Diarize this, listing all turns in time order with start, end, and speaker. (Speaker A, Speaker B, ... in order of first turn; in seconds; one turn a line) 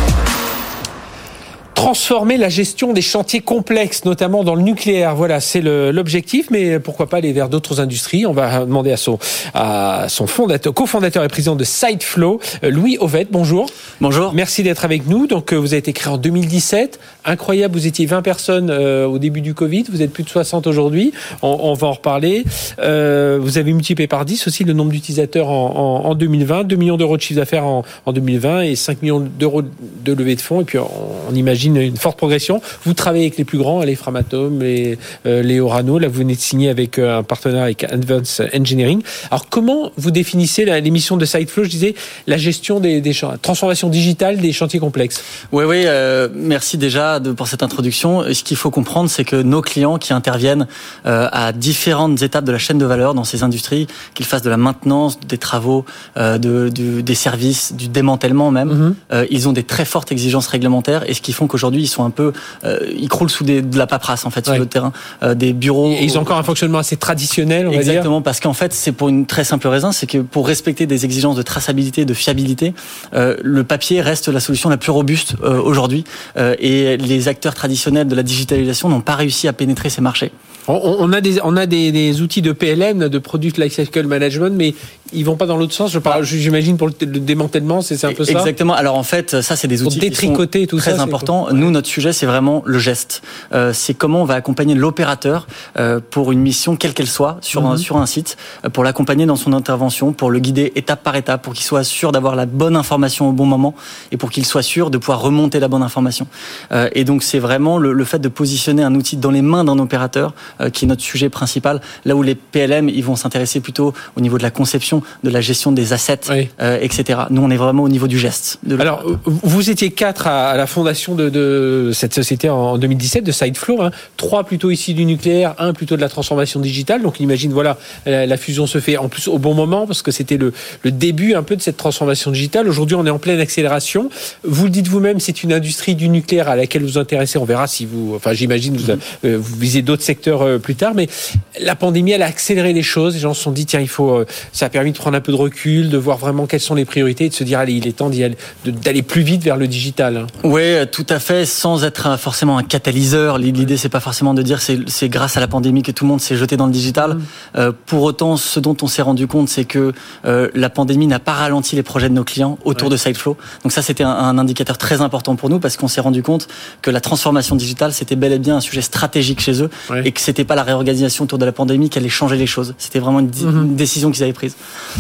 Speaker A: 1.8-13.7
Speaker B: 14.0-14.4
Speaker A: 14.3-45.2
Speaker B: 45.5-66.5
Speaker A: 58.7-59.0
Speaker A: 65.8-68.1
Speaker B: 67.7-80.3
Speaker A: 80.7-88.5
Speaker B: 88.1-119.0
Speaker A: 89.8-91.7
Speaker A: 97.5-97.9
Speaker A: 118.8-150.3
Speaker B: 150.4-174.6
Speaker A: 173.4-173.7